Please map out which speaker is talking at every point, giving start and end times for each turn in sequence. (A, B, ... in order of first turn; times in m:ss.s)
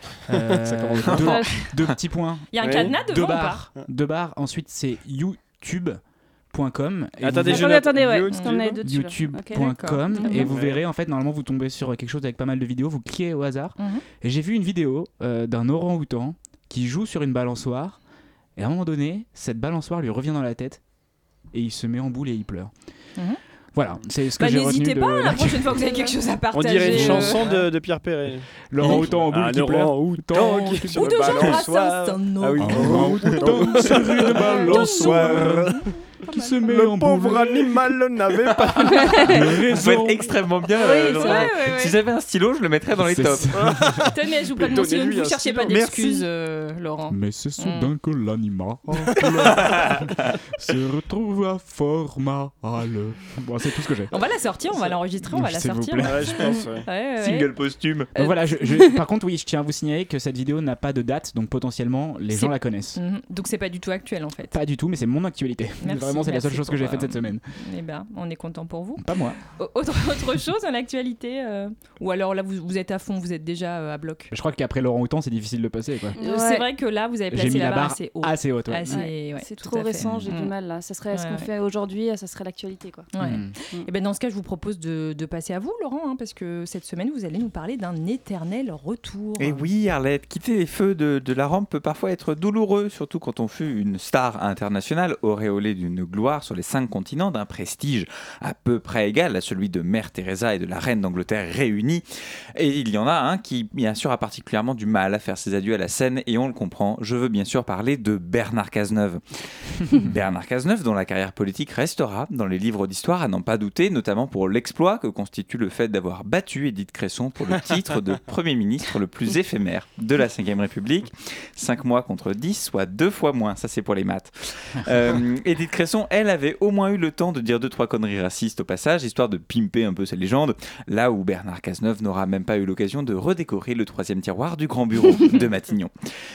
0:00.3-0:06.0 A
0:00.3-0:01.6 B
0:01.0-0:01.8 C
0:02.5-0:03.7 D
0:02.6-0:02.9 B
0:06.5-0:07.9 A
0:07.2-0:08.8 B
0:07.5-0:09.6 E
0:08.3-0:08.8 D
0:08.8-0:18.0 A
0:09.5-0:10.5 D
0:10.3-0:10.8 B
0:13.8-0:14.0 D
0:18.6-0:20.8 A
0:21.5-0:22.7 A
0:23.7-0:26.0 A
0:24.4-0:27.5 D
0:26.5-0:35.8 B
0:26.8-0:27.7 A
0:28.7-0:31.4 A
0:30.3-0:36.7 D
0:32.6-0:35.7 A
0:36.2-0:37.9 A
0:36.6-0:39.5 B
0:39.1-0:40.3 A
0:39.6-0:43.6 C
0:40.8-0:41.5 E
0:40.8-0:42.0 D
0:43.0-0:44.0 A
0:43.5-0:46.2 B
0:44.1-0:47.9 D
0:47.1-0:54.1 A
0:49.5-0:50.1 C
0:54.1-0:57.5 D
0:55.3-0:56.6 A
0:56.0-0:56.9 B
0:57.2-0:58.1 C
0:58.1-0:58.7 D
0:58.2-1:03.0 A
1:02.3-1:04.6 D
1:04.5-1:07.4 A
1:05.8-1:14.3 D
1:09.0-1:09.4 A
1:14.3-1:16.2 A
1:16.2-1:16.6 E
1:16.2-1:20.5 D
1:17.3-1:19.0 A
1:18.9-1:23.1 E
1:20.0-1:20.3 A
1:21.1-1:21.5 D
1:23.1-1:29.6 D
1:23.2-1:23.5 A
1:29.4-1:49.2 C
1:49.8-2:15.9 C